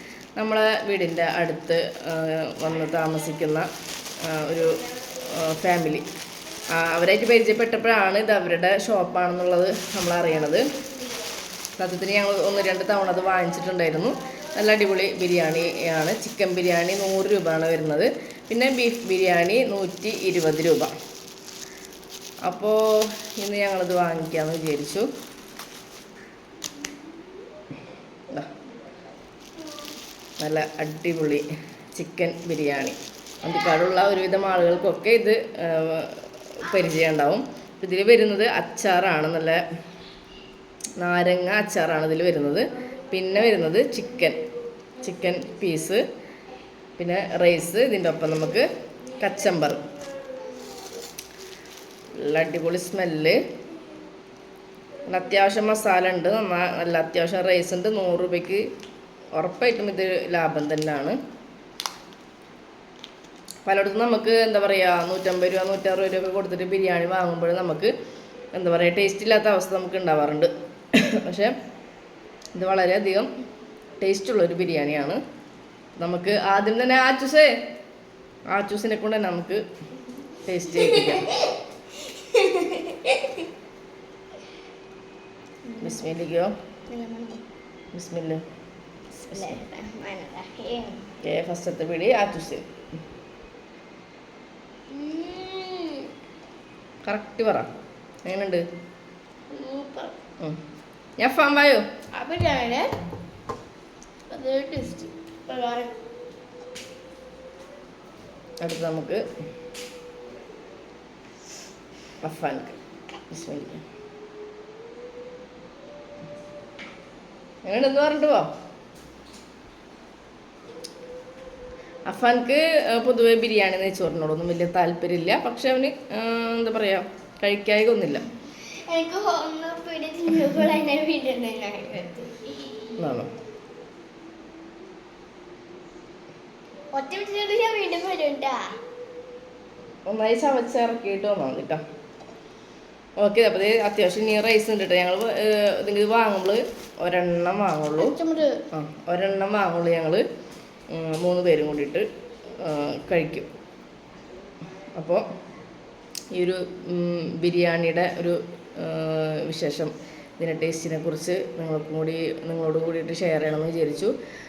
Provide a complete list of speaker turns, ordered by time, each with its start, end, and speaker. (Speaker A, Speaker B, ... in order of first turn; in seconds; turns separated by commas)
Speaker A: 0.4-3.7, Speaker A: 4.2-6.0, Speaker A: 6.7-10.7, Speaker A: 11.8-20.9, Speaker A: 22.4-25.1, Speaker A: 30.4-39.6, Speaker A: 41.0-44.4, Speaker A: 45.0-46.0, Speaker A: 47.0-49.9, Speaker A: 52.2-53.4, Speaker A: 55.1-58.6, Speaker A: 59.4-61.2, Speaker A: 63.7-67.9, Speaker A: 68.5-71.5, Speaker A: 72.5-73.3, Speaker A: 74.0-75.2, Speaker A: 76.0-77.5, Speaker A: 78.5-79.6, Speaker A: 80.5-81.3, Speaker B: 82.1-83.5, Speaker B: 85.7-86.0, Speaker A: 85.8-86.5, Speaker B: 86.9-87.4, Speaker A: 87.9-88.4, Speaker B: 89.2-91.0, Speaker A: 89.3-89.6, Speaker A: 91.2-92.7, Speaker B: 94.9-96.1, Speaker A: 97.0-97.7, Speaker A: 98.3-98.6, Speaker B: 99.5-100.2, Speaker A: 101.2-101.9, Speaker B: 102.1-102.9, Speaker B: 104.3-106.0, Speaker A: 108.6-109.2, Speaker A: 112.2-112.8, Speaker A: 113.3-113.8, Speaker A: 117.7-118.5, Speaker A: 122.1-128.3, Speaker B: 128.9-133.0, Speaker A: 133.0-133.3, Speaker B: 136.9-138.7, Speaker A: 140.1-141.8, Speaker A: 143.2-148.2, Speaker B: 148.0-148.6, Speaker A: 148.7-150.2, Speaker A: 150.9-152.1, Speaker A: 152.6-153.5, Speaker A: 155.0-155.2, Speaker A: 156.3-164.1